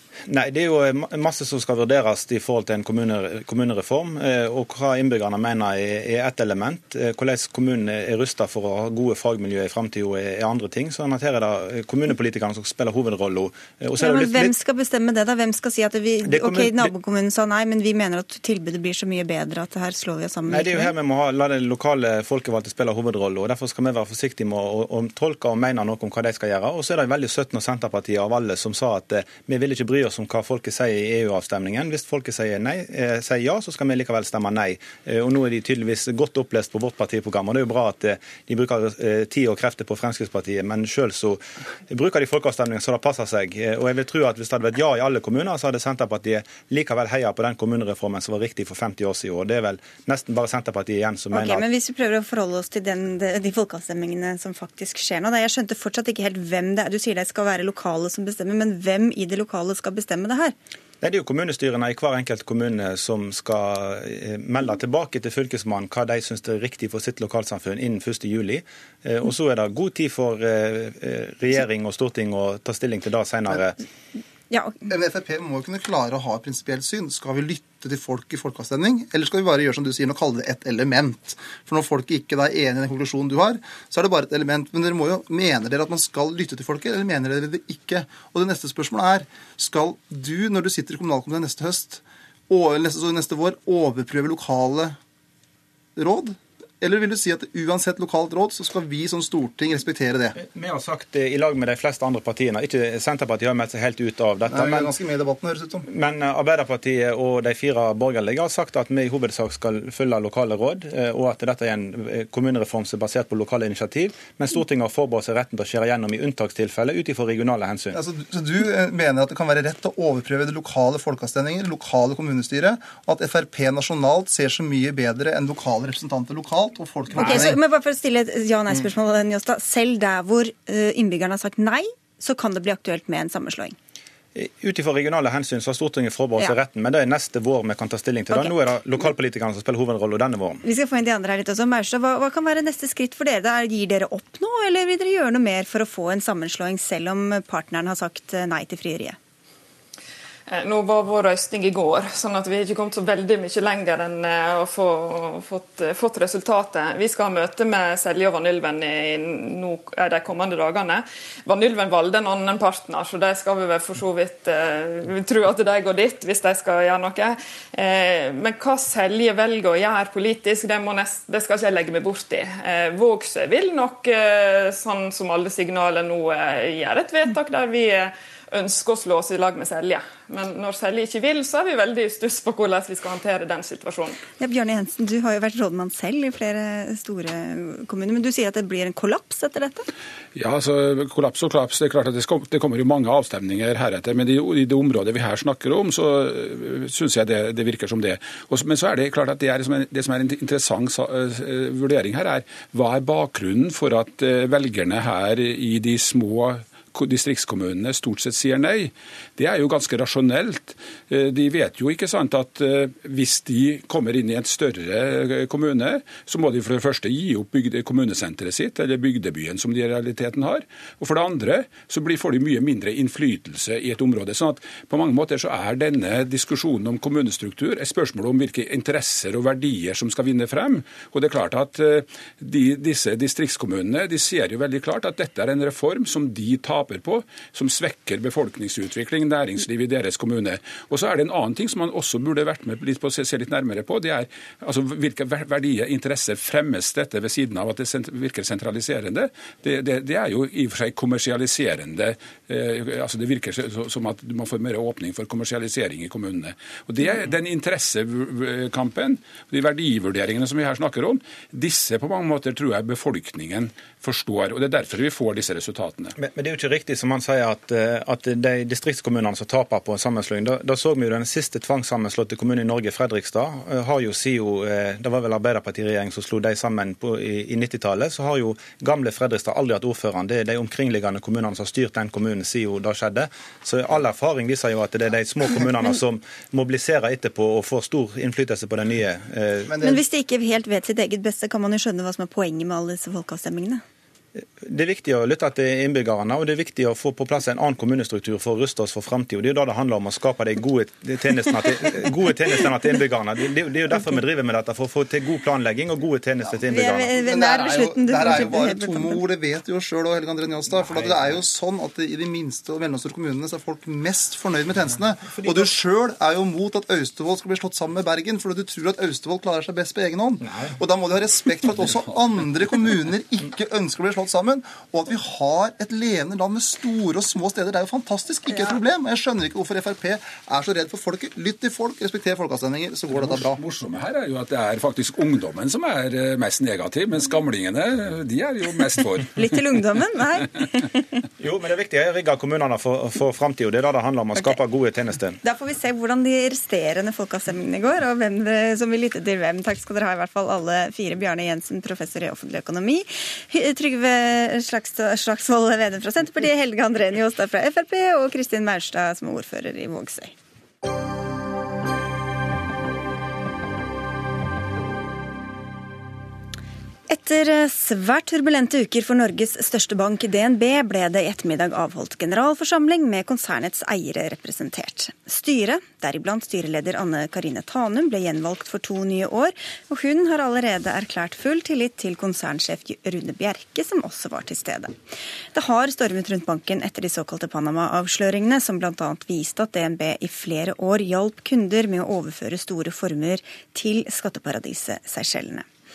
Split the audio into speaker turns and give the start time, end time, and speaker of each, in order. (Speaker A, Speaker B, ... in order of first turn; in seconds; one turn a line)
Speaker A: 0.3-14.5
Speaker B: 14.0-20.9
Speaker A: 16.3-16.9
Speaker A: 20.5-51.6
Speaker B: 51.3-60.5
Speaker A: 61.0-73.8
Speaker B: 74.5-74.9
Speaker C: 74.9-95.0
Speaker C: 96.0-100.3
Speaker A: 100.4-104.9
Speaker C: 104.5-105.8
Speaker A: 105.9-118.0
Speaker C: 117.9-127.6
Speaker B: 127.2-133.8
Speaker A: 134.3-140.6
Speaker B: 140.6-149.2
Speaker D: 150.5-184.2
Speaker B: 184.4-189.9
Speaker E: 190.3-266.1
Speaker A: 266.2-289.8
Speaker B: 289.8-293.8
Speaker A: 294.4-307.1
Speaker B: 306.7-309.2
Speaker C: 307.2-333.6
Speaker E: 333.1-339.6
Speaker B: 339.4-341.0
Speaker A: 341.4-345.4
Speaker B: 345.4-360.3
Speaker B: 367.1-384.9
Speaker B: 385.5-395.7